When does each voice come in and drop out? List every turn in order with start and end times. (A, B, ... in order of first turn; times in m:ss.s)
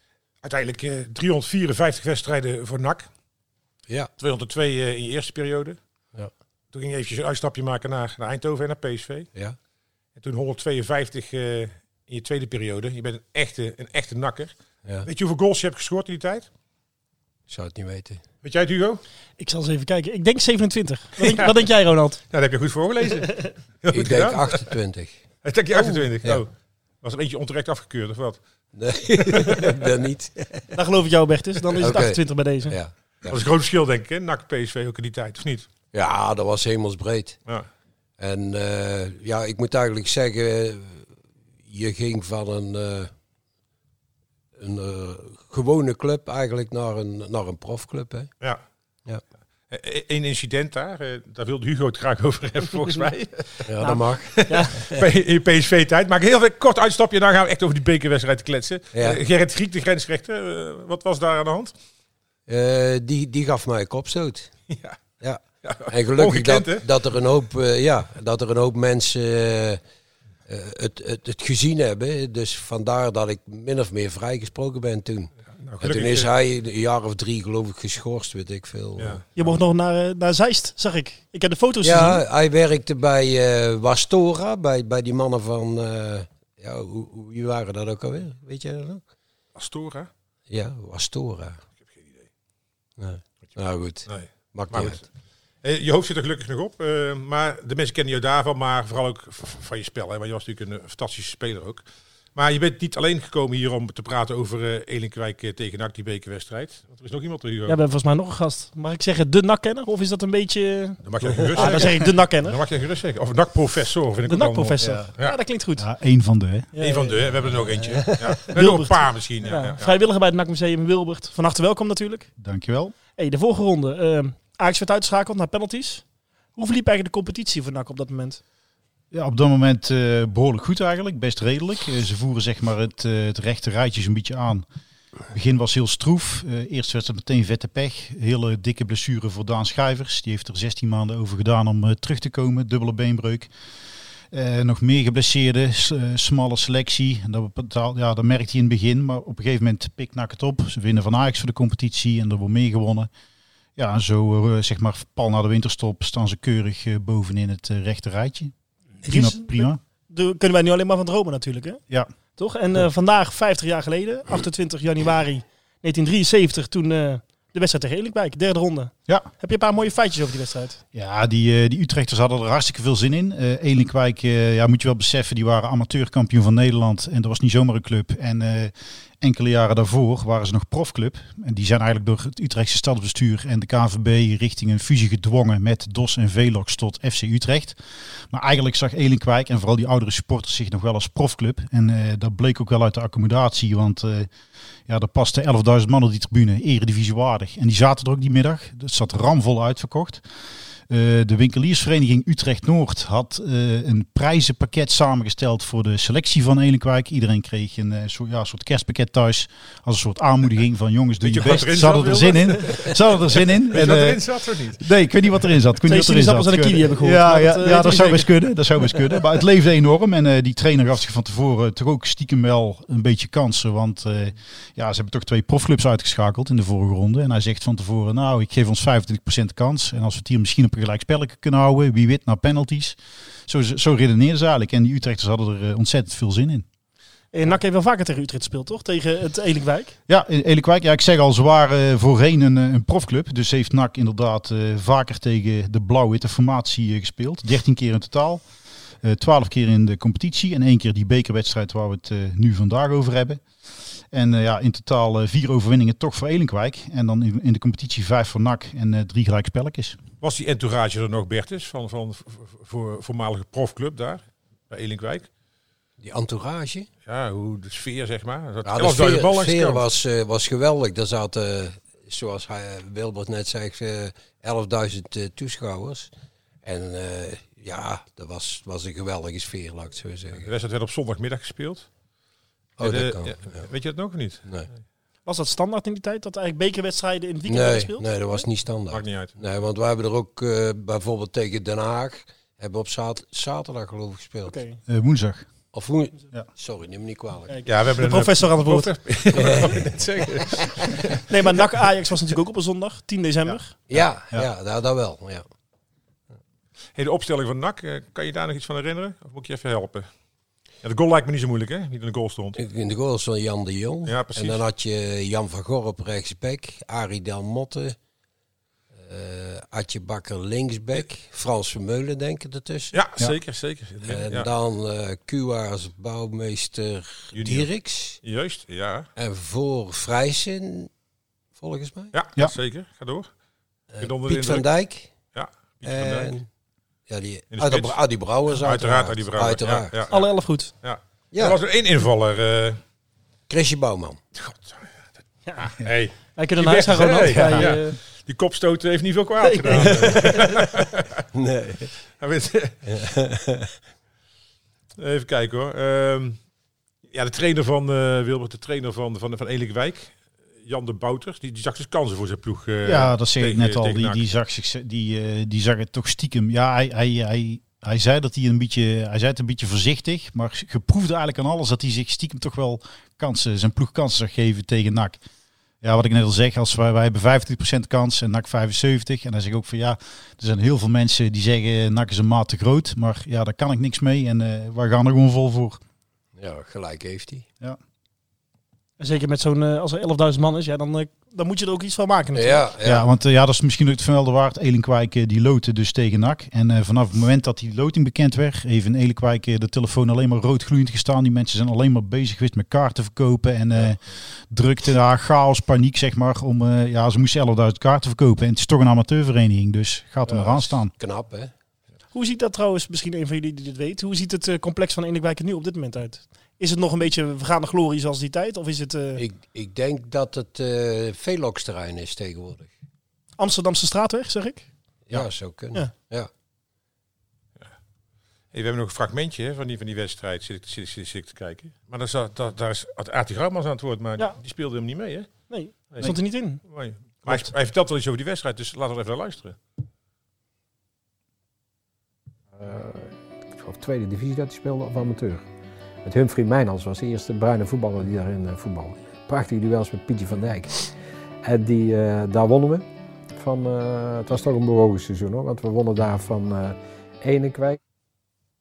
0:00.4-0:03.1 A
0:04.2-0:05.8 A
0:06.7-0:09.3 A
0:10.2-0:16.5 A
0:17.5-0:18.2 B
0:18.4-0:19.0 A
0:19.4-0:22.2 C
0:21.2-0:21.5 A
0:22.3-0:24.7 A
0:23.9-0:25.2 B
0:25.4-0:28.4 A
0:25.9-0:26.4 B
0:28.7-0:30.7 B
0:29.3-0:29.7 A
0:30.7-0:32.7 C
0:31.8-0:33.4 B
0:33.2-0:35.7 A
0:35.9-0:37.4 B
0:38.2-0:41.1 B
0:41.7-0:43.1 B
0:44.6-0:48.3 B
0:49.7-0:53.8 A
0:53.7-0:54.4 B
0:53.8-0:54.9 C
0:54.4-1:01.7 A
0:58.9-0:59.2 B
1:02.5-1:04.5 B
1:04.7-1:05.0 A
1:05.2-1:09.8 B
1:05.6-1:06.9 A
1:10.5-1:19.2 B
1:15.6-1:16.3 A
1:19.0-1:19.2 A
1:19.4-1:22.2 C
1:21.8-1:29.0 B
1:29.6-1:30.1 A
1:30.5-1:31.6 B
1:31.8-1:32.3 A
1:33.0-1:35.0 B
1:34.0-1:35.0 A
1:35.6-1:41.8 A
1:42.4-1:47.8 A
1:47.7-1:51.0 C
1:51.0-1:55.4 A
1:51.5-1:52.6 C
1:54.2-1:55.8 C
1:55.8-1:56.7 D
1:56.7-1:57.2 C
1:56.8-1:59.9 A
1:58.5-2:02.3 C
2:02.4-2:02.9 D
2:03.2-2:06.0 C
2:06.6-2:08.4 C
2:09.1-2:14.6 D
2:15.3-2:23.5 D
2:24.3-2:33.1 D
2:33.8-2:38.5 D
2:39.0-2:41.8 C
2:39.0-2:39.8 D
2:42.4-2:50.8 C
2:50.9-3:07.8 D
3:08.3-3:14.3 D
3:14.9-3:20.2 D
3:20.9-3:56.6 D
3:31.2-3:34.9 A
3:35.8-3:38.3 C
3:57.3-4:00.0 C
4:00.1-4:08.4 D
4:09.0-4:13.4 D
4:14.1-4:20.0 D
4:20.2-4:25.3 A
4:26.0-4:26.9 B
4:27.1-4:29.8 A
4:28.6-4:36.1 B
4:36.6-4:40.5 B
4:40.4-4:41.9 A
4:42.8-4:43.6 B
4:42.8-4:44.6 A
4:45.2-4:48.2 C
4:47.4-4:54.6 B
4:48.9-4:49.4 A
4:54.5-4:54.8 C
4:54.9-4:55.5 D
4:55.7-4:57.6 B
4:57.5-4:58.9 C
4:57.6-5:01.2 A
4:59.3-4:59.8 B
5:01.3-5:03.7 C
5:03.9-5:05.4 B
5:03.9-5:04.5 D
5:06.9-5:10.1 A
5:10.8-5:12.6 A
5:12.6-5:18.0 B
5:14.0-5:14.6 A
5:19.0-5:23.0 B
5:22.9-5:24.5 A
5:24.0-5:28.2 B
5:27.3-5:27.7 A
5:28.2-5:29.1 A
5:29.2-5:30.9 B
5:31.6-5:32.2 B
5:32.1-5:33.3 A
5:33.9-5:35.1 B
5:34.0-5:34.7 A
5:35.3-5:36.4 A
5:35.8-5:36.4 B
5:37.1-5:40.0 B
5:37.5-5:40.2 A
5:40.1-5:40.7 C
5:40.8-5:42.8 A
5:41.3-5:41.6 B
5:43.5-5:44.2 B
5:44.4-5:44.9 A
5:45.6-5:51.2 A
5:46.3-5:48.0 C
5:47.3-5:47.7 D
5:49.4-5:50.4 C
5:51.3-5:51.9 B
5:52.2-5:52.9 A
5:52.9-5:53.7 B
5:55.0-5:56.4 A
5:57.1-6:04.2 A
6:02.8-6:15.2 D
6:15.8-6:25.8 D
6:26.4-6:27.4 B
6:29.0-6:32.6 C
6:32.3-6:33.1 B
6:32.8-6:50.9 D
6:50.2-6:51.5 B
6:52.1-6:59.2 C
6:59.2-7:02.7 B
7:03.4-7:04.7 C
7:05.1-7:06.3 B
7:08.5-7:15.3 A
7:15.5-7:16.6 C
7:16.6-7:19.6 A
7:22.6-7:25.4 E
7:26.0-7:37.8 E